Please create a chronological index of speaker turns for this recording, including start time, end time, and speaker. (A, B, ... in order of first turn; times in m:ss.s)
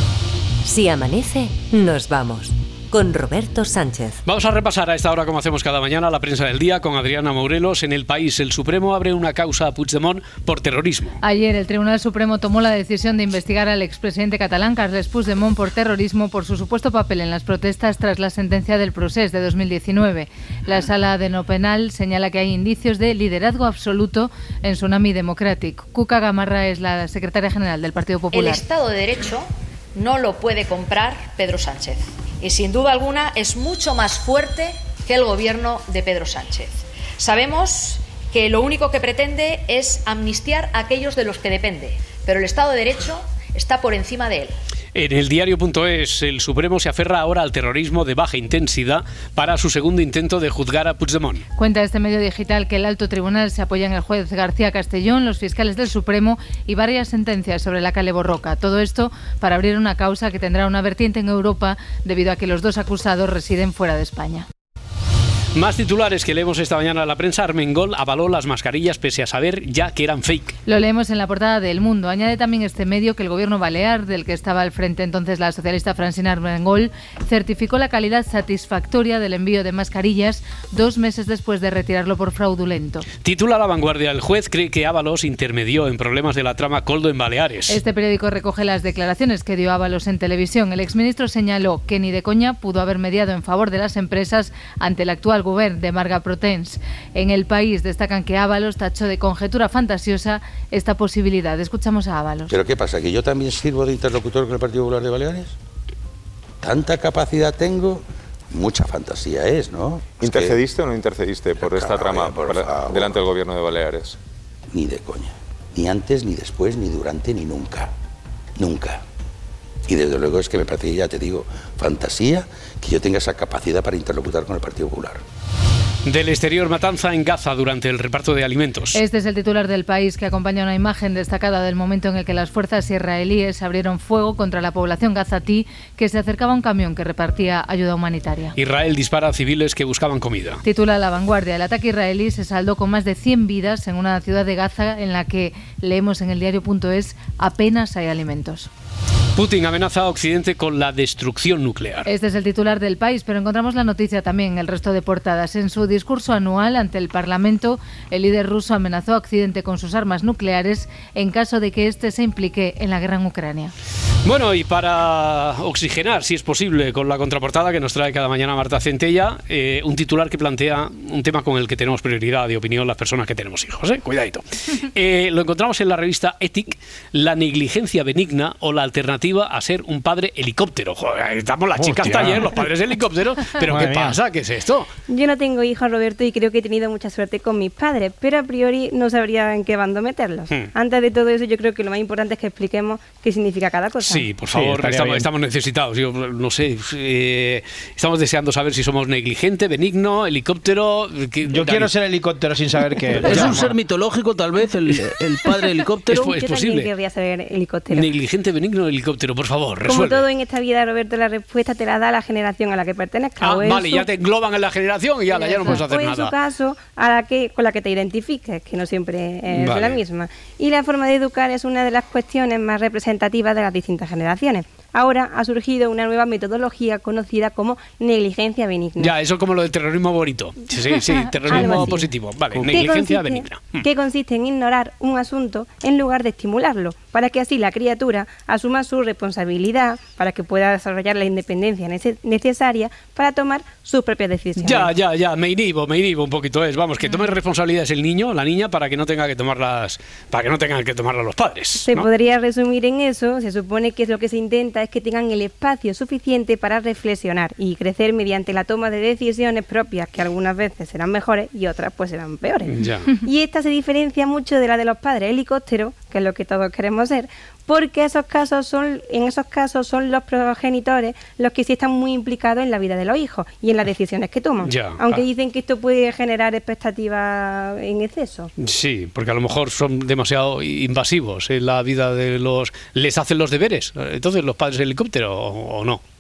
0:00.7-0:04.2 A
0:04.2-0:11.2 B
0:11.2-0:28.6 C
0:28.3-0:44.5 D
0:45.0-0:51.4 B
0:51.6-1:04.5 C
1:05.6-1:10.6 B
1:10.7-1:23.0 C
1:23.2-1:27.8 B
1:27.7-1:42.5 C
1:42.5-1:45.5 E
1:46.6-1:50.6 E
1:50.2-1:54.2 F
1:51.6-1:53.3 E
1:54.7-1:57.9 E
1:58.6-1:59.0 E
1:59.9-2:05.2 E
2:06.1-2:09.0 B
2:08.9-2:18.6 C
2:18.6-2:20.6 B
2:20.6-2:28.7 C
2:29.4-2:32.1 B
2:32.1-2:43.7 C
2:44.2-3:04.9 B
3:01.8-3:02.5 G
3:03.7-3:04.2 G
3:05.1-3:14.3 H
3:14.0-3:21.9 B
3:14.5-3:15.3 I
3:21.4-3:23.8 G
3:23.2-3:26.2 I
3:26.1-3:26.9 B
3:26.1-3:28.1 H
3:27.9-3:30.3 B
3:29.8-3:34.1 H
3:33.4-3:36.3 B
3:35.3-3:49.2 H
3:39.5-3:40.0 B
3:49.0-3:53.9 B
3:51.5-3:52.1 H
3:51.6-3:51.8 I
3:52.7-4:04.9 H
4:04.6-4:12.1 B
4:11.8-4:22.7 H
4:22.7-4:23.1 B
4:23.2-4:38.5 H
4:34.6-4:35.2 B
4:38.6-4:46.0 B